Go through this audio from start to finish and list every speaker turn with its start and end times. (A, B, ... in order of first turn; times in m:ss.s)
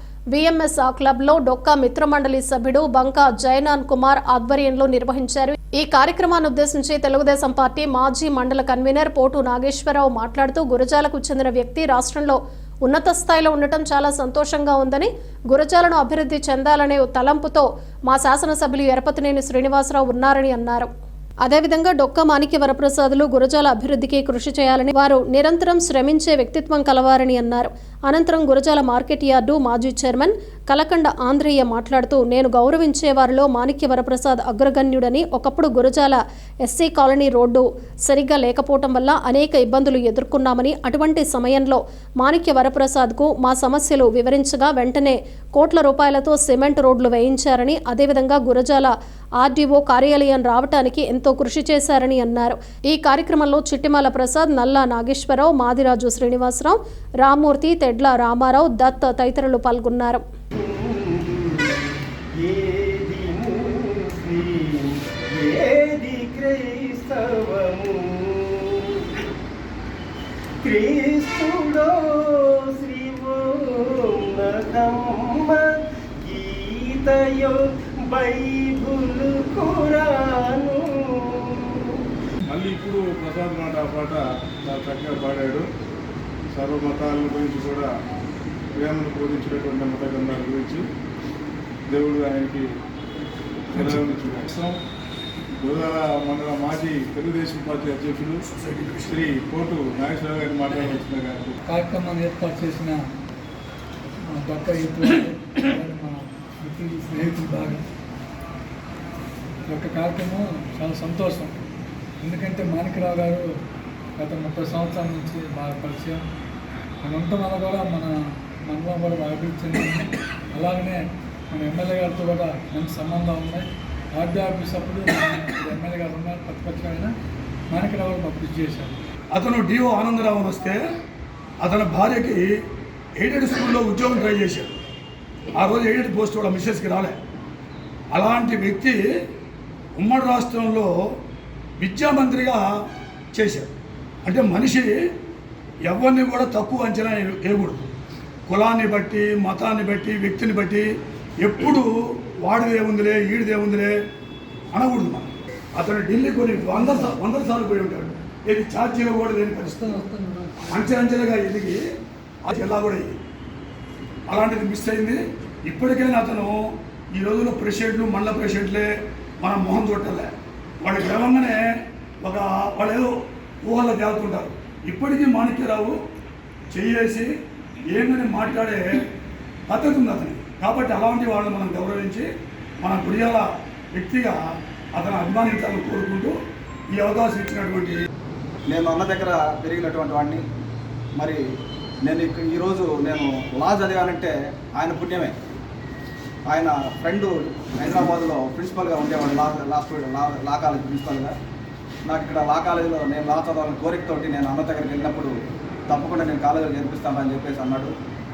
0:00.3-0:20.9 A
0:21.4-1:00.2 A
1:00.5-1:09.2 B
1:10.6-1:22.0 B
1:22.5-1:25.6 C
1:26.5-1:27.9 C
1:28.8-1:30.8 C
1:31.9-1:32.6 C
1:33.7-1:34.8 C
1:35.6-1:38.4 C
1:38.5-1:39.3 D
1:39.0-1:41.5 C
1:41.7-1:43.0 E
1:44.3-1:47.8 E
1:49.7-1:51.5 E
1:52.2-1:53.4 E
1:54.2-1:56.2 E
1:57.0-1:58.1 E
1:58.7-2:01.0 E
2:01.5-2:07.1 E
2:07.7-2:09.0 E
2:09.3-2:10.8 D
2:11.6-2:12.5 D
2:13.2-2:14.8 D
2:15.5-2:17.1 D
2:18.1-2:19.0 D
2:20.0-2:20.9 D
2:21.8-2:22.7 D
2:23.3-2:23.7 D
2:24.2-2:24.9 D
2:25.9-2:27.9 D
2:28.5-2:30.9 D
2:31.4-2:31.9 D
2:32.4-2:33.9 D
2:34.7-2:40.0 D
2:39.6-2:40.6 E
2:40.7-2:41.8 D
2:42.4-2:43.2 D
2:44.3-2:50.3 D
2:50.8-2:51.6 D
2:52.2-2:53.1 D
2:53.6-2:56.0 D
2:56.7-2:57.3 D
2:57.9-2:59.0 D
2:59.7-3:02.3 D
3:02.8-3:04.4 D
3:04.9-3:06.3 D
3:06.9-3:08.0 D
3:08.7-3:10.4 F
3:12.0-3:15.3 F
3:16.4-3:21.3 F
3:22.0-3:25.3 F
3:25.9-3:27.9 F